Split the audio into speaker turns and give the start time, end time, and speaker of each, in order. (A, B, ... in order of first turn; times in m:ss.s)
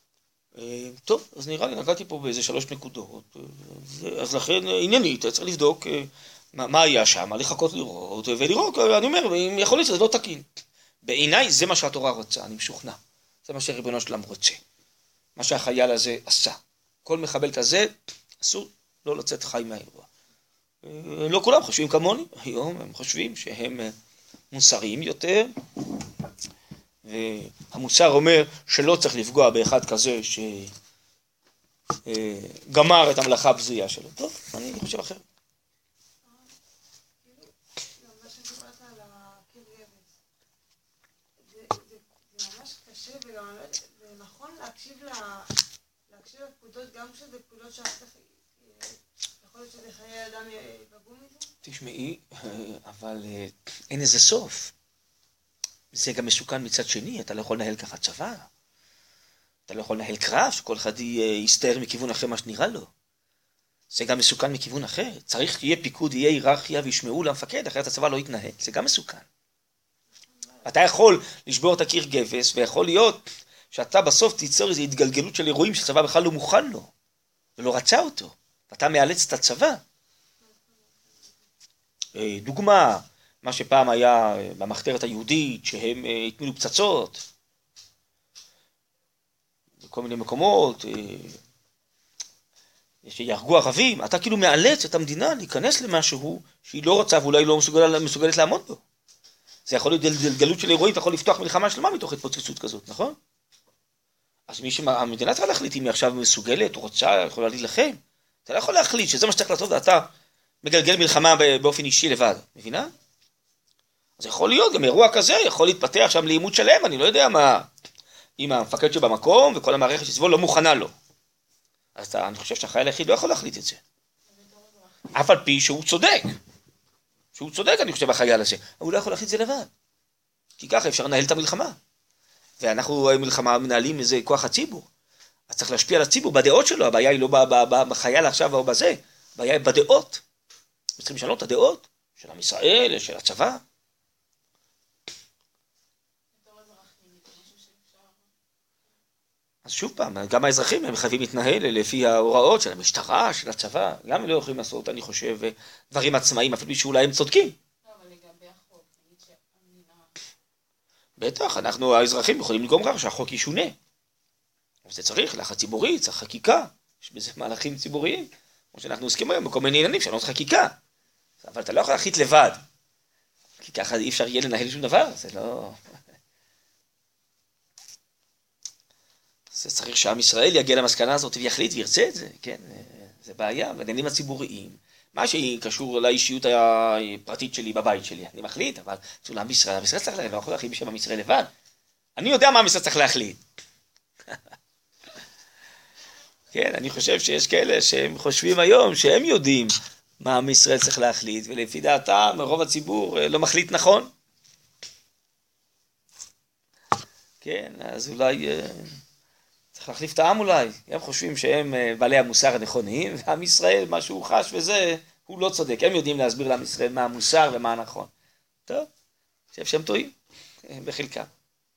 0:00.5-0:10.4 A
0:11.0-0:14.6 A
0:15.4-0:20.1 A
0:20.8-0:23.9 A
0:24.5-0:25.5 A
0:27.0-0:30.7 A
0:32.0-0:35.2 A
0:36.2-0:36.5 B
0:37.2-0:40.1 B
0:41.4-0:45.5 B
0:46.1-0:51.5 B
0:51.6-0:54.7 A
0:55.9-0:58.5 A
0:59.7-1:02.9 A
1:03.9-1:09.2 A
1:10.4-1:10.7 B
1:10.6-1:16.9 A
1:17.6-1:19.8 A
1:20.4-1:21.4 B
1:22.1-1:27.2 A
1:29.8-1:31.4 A
1:33.0-1:38.8 A
1:39.6-1:43.2 A
1:44.5-1:50.1 A
1:50.6-1:52.9 A
1:54.2-1:57.7 A
1:58.4-2:00.9 A
2:02.0-2:03.8 A
2:04.3-2:04.9 B
2:05.1-2:06.4 A
2:07.3-2:09.7 A
2:10.6-2:11.8 A
2:12.6-2:14.9 A
2:15.5-2:20.2 A
2:21.0-2:23.6 A
2:26.3-2:28.2 B
2:29.6-2:37.6 A
2:37.8-2:40.1 B
2:41.2-2:43.8 A
2:44.8-2:50.8 A
2:51.4-2:52.6 A
2:53.6-2:55.8 A
2:59.5-3:11.5 A
3:12.2-3:13.4 A
3:16.5-3:24.1 A
3:27.4-3:29.0 A
3:29.7-3:38.1 A
3:39.5-3:40.1 A
3:40.6-3:41.3 A